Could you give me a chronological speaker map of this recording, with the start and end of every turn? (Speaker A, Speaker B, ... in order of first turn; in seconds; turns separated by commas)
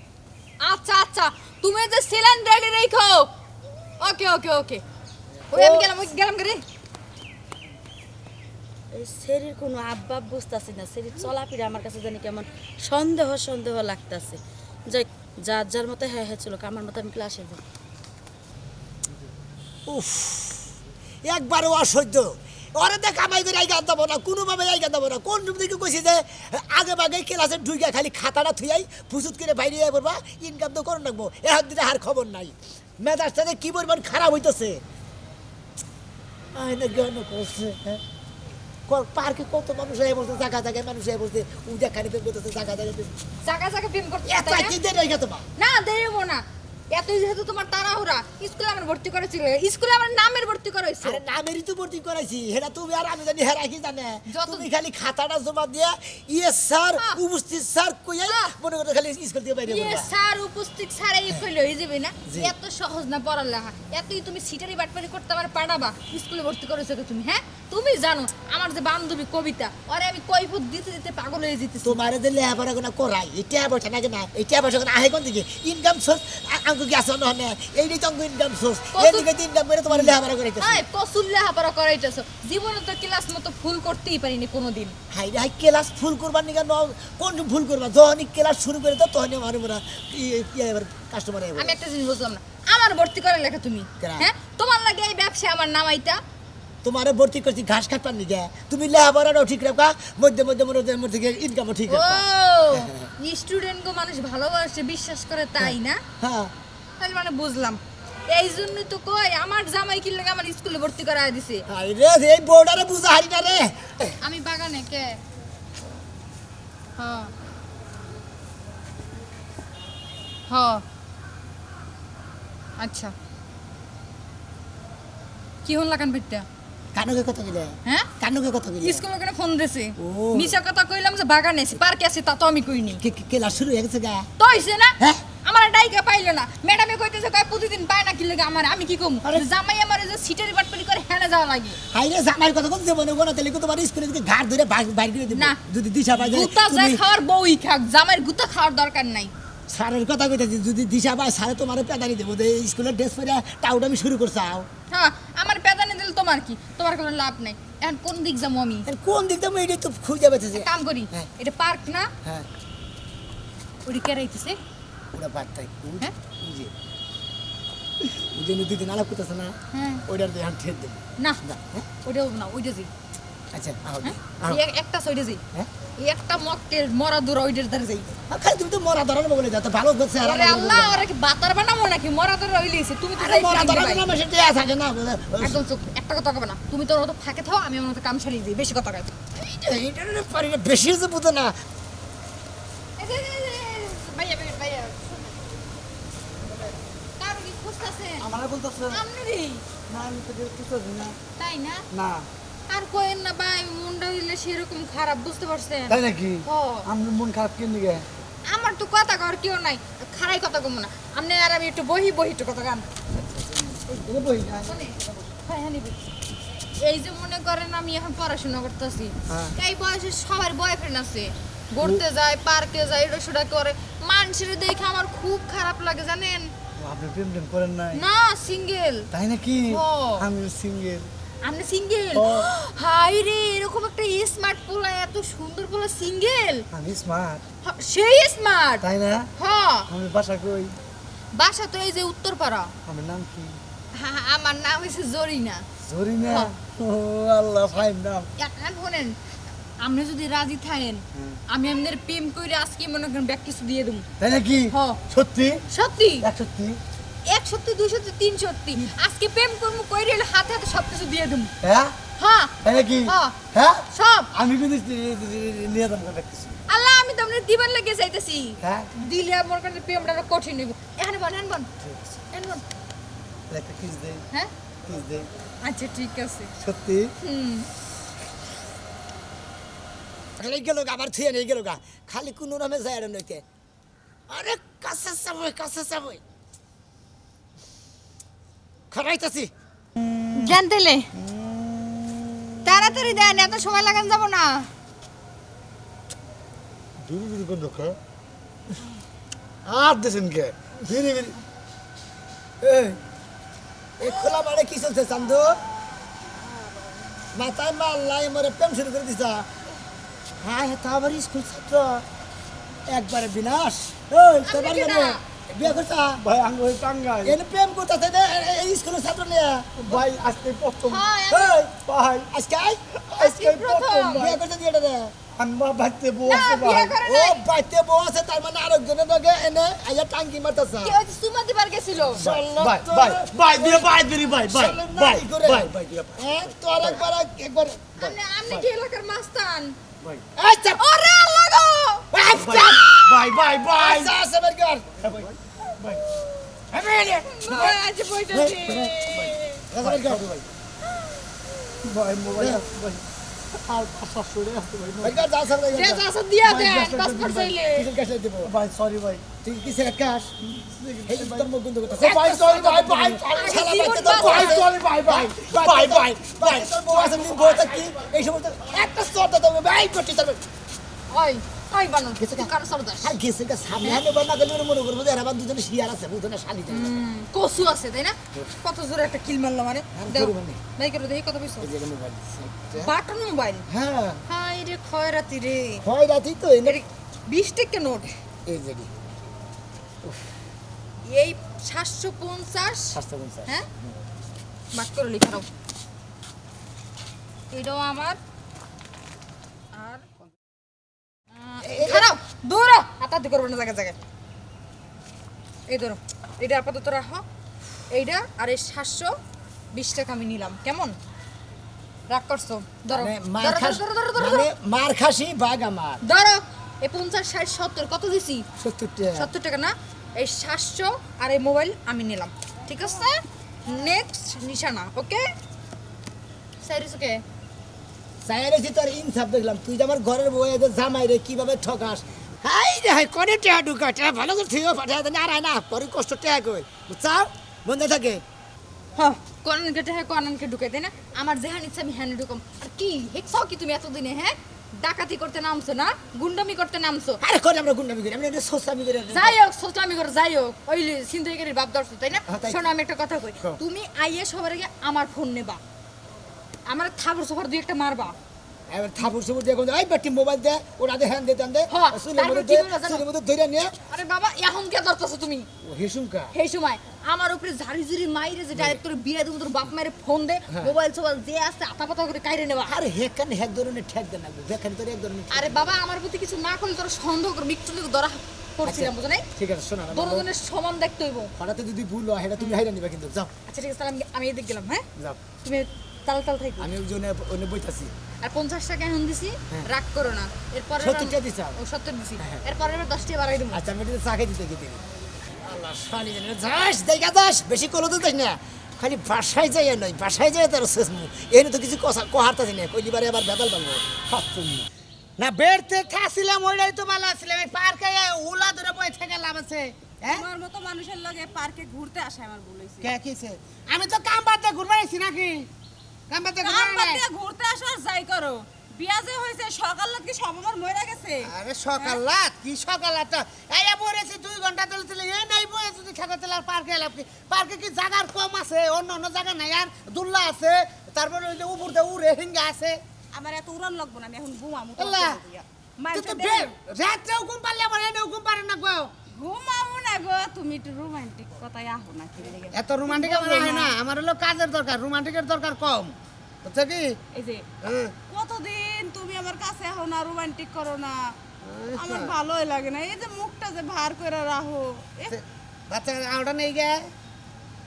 Speaker A: 0.6-3.3, Speaker A: 4.0-4.8, Speaker A: 5.5-6.6, Speaker B: 8.9-17.6, Speaker C: 19.9-20.7, Speaker C: 21.2-34.8, Speaker C: 36.5-38.0, Speaker C: 38.9-43.1, Speaker A: 43.5-44.8, Speaker C: 44.3-45.5, Speaker A: 45.6-51.2, Speaker C: 51.0-60.1, Speaker A: 54.3-54.7, Speaker A: 58.2-58.5, Speaker A: 59.7-72.0, Speaker C: 62.3-62.5, Speaker C: 71.8-80.8, Speaker A: 78.9-79.3, Speaker A: 79.9-85.0, Speaker C: 85.1-91.8, Speaker A: 91.6-96.2, Speaker C: 94.0-94.3, Speaker C: 96.8-103.1, Speaker A: 101.9-106.0, Speaker C: 105.6-106.5, Speaker A: 107.0-111.6, Speaker C: 111.7-114.2, Speaker A: 114.2-115.2, Speaker A: 117.0-117.3, Speaker A: 120.5-120.8, Speaker A: 122.8-123.1, Speaker A: 125.6-126.5, Speaker C: 126.9-129.0, Speaker A: 128.8-133.0, Speaker C: 130.0-130.6, Speaker C: 133.0-134.3, Speaker A: 134.4-141.8, Speaker C: 141.9-147.0, Speaker A: 146.2-149.3, Speaker C: 149.7-154.7, Speaker A: 154.9-158.9, Speaker C: 158.8-161.3, Speaker A: 160.6-162.1, Speaker A: 163.9-164.6, Speaker C: 165.1-166.7, Speaker C: 168.0-171.9, Speaker A: 169.7-170.0, Speaker A: 172.0-172.9, Speaker C: 173.5-174.6, Speaker A: 174.0-175.4, Speaker A: 176.0-178.2, Speaker C: 178.3-181.1, Speaker A: 180.2-184.0, Speaker C: 183.2-185.6, Speaker A: 185.4-189.1, Speaker C: 189.3-191.6, Speaker A: 193.0-195.3, Speaker A: 197.2-198.3, Speaker D: 198.2-199.0, Speaker A: 198.9-199.6, Speaker D: 199.9-201.2, Speaker A: 201.4-201.8, Speaker D: 201.9-202.3, Speaker A: 202.7-206.9, Speaker D: 205.9-208.1, Speaker A: 208.5-212.9, Speaker C: 213.7-214.4, Speaker D: 213.9-215.1, Speaker A: 214.7-216.1, Speaker A: 216.8-226.5, Speaker D: 226.8-228.0, Speaker A: 227.9-229.1, Speaker D: 229.1-231.1, Speaker A: 229.7-230.3, Speaker A: 231.4-236.7, Speaker D: 232.1-232.5, Speaker D: 236.7-237.4, Speaker A: 237.6-238.8, Speaker D: 238.8-239.3, Speaker A: 239.4-239.9, Speaker D: 239.9-240.7, Speaker A: 241.3-242.7, Speaker D: 242.9-243.6, Speaker A: 243.9-245.7, Speaker D: 245.9-248.3, Speaker A: 248.4-249.2, Speaker A: 249.8-254.1, Speaker D: 251.1-251.4, Speaker D: 254.2-255.6, Speaker A: 254.7-255.0, Speaker A: 255.7-256.3, Speaker D: 256.2-256.8, Speaker A: 257.3-261.5, Speaker D: 261.6-261.9, Speaker A: 262.2-263.4, Speaker D: 262.6-266.6, Speaker A: 263.9-264.3, Speaker A: 266.7-271.7, Speaker D: 268.6-268.9, Speaker A: 272.3-272.6, Speaker D: 273.5-274.2, Speaker D: 274.9-275.3, Speaker A: 275.6-276.5, Speaker D: 276.6-277.1, Speaker A: 277.2-277.7, Speaker C: 280.4-283.4, Speaker C: 284.3-286.2, Speaker C: 288.9-289.5, Speaker A: 290.4-291.1, Speaker D: 291.2-292.1, Speaker A: 292.6-294.7, Speaker D: 297.0-298.0, Speaker D: 299.7-301.4, Speaker D: 302.6-303.0, Speaker C: 304.0-305.6, Speaker C: 307.3-309.5, Speaker C: 310.4-311.8, Speaker D: 311.0-311.8, Speaker C: 312.9-316.2, Speaker A: 314.4-315.2, Speaker D: 316.2-317.4, Speaker C: 317.2-319.7, Speaker D: 319.8-322.3, Speaker A: 320.9-321.6, Speaker C: 321.4-321.7, Speaker C: 322.3-322.8, Speaker D: 323.1-324.4, Speaker A: 323.2-324.3, Speaker C: 324.1-325.1, Speaker D: 325.4-327.0, Speaker A: 326.3-327.4, Speaker C: 327.0-331.0, Speaker A: 330.8-332.2, Speaker D: 332.2-337.0, Speaker C: 332.2-338.2, Speaker A: 338.0-339.8, Speaker C: 340.4-340.9, Speaker A: 340.8-342.1, Speaker C: 342.1-345.3, Speaker D: 342.3-344.1, Speaker D: 345.0-346.0, Speaker C: 346.7-347.8, Speaker A: 347.3-349.6, Speaker C: 348.3-348.9, Speaker D: 348.7-350.4, Speaker C: 349.7-350.5, Speaker D: 351.8-353.0, Speaker C: 352.4-352.6, Speaker D: 353.6-355.2, Speaker C: 355.0-358.5, Speaker A: 355.7-357.9, Speaker D: 358.4-359.3, Speaker C: 359.4-360.3, Speaker D: 360.5-367.9, Speaker C: 361.1-370.4, Speaker A: 363.3-364.6, Speaker A: 371.1-373.1, Speaker C: 372.2-372.5, Speaker C: 373.0-377.0, Speaker A: 376.7-381.7, Speaker C: 379.9-380.6, Speaker C: 381.6-382.5, Speaker A: 382.8-383.6, Speaker C: 383.7-384.1, Speaker A: 384.3-385.9, Speaker C: 385.8-386.8, Speaker A: 386.6-388.1, Speaker C: 388.5-388.9, Speaker A: 391.1-393.7, Speaker C: 392.9-393.9, Speaker A: 394.7-395.5, Speaker A: 397.5-398.2, Speaker A: 399.7-400.1, Speaker A: 401.4-404.0, Speaker C: 401.6-402.1, Speaker A: 405.7-407.2, Speaker A: 407.9-409.2, Speaker A: 409.7-411.0, Speaker A: 412.1-414.5, Speaker C: 412.9-416.0, Speaker A: 416.0-418.5, Speaker C: 418.6-419.3, Speaker A: 419.1-425.3, Speaker A: 426.6-427.2, Speaker C: 428.2-438.2, Speaker A: 439.0-447.2, Speaker C: 447.2-449.4, Speaker A: 449.1-455.6, Speaker C: 452.3-452.6, Speaker A: 456.7-458.1, Speaker C: 458.7-463.8, Speaker A: 461.7-463.0, Speaker A: 463.9-465.5, Speaker C: 465.6-466.3, Speaker A: 466.3-472.8, Speaker C: 470.5-470.7, Speaker C: 472.6-475.7, Speaker A: 475.3-479.3, Speaker C: 478.6-480.3, Speaker A: 479.9-481.3, Speaker C: 481.4-483.3, Speaker A: 483.5-484.9, Speaker A: 485.4-486.7, Speaker C: 486.6-487.9, Speaker A: 488.2-493.6, Speaker C: 490.8-491.6, Speaker C: 493.5-494.8, Speaker C: 495.4-504.5, Speaker D: 504.3-504.6, Speaker E: 505.2-510.3, Speaker A: 510.1-512.9, Speaker E: 512.8-515.5, Speaker E: 516.1-517.0, Speaker A: 516.4-521.3, Speaker E: 521.2-532.8, Speaker E: 534.8-535.2, Speaker B: 535.9-536.3, Speaker E: 535.9-538.9, Speaker A: 542.5-543.7, Speaker E: 542.5-547.0, Speaker E: 547.6-547.9, Speaker E: 551.4-552.2, Speaker E: 555.1-556.9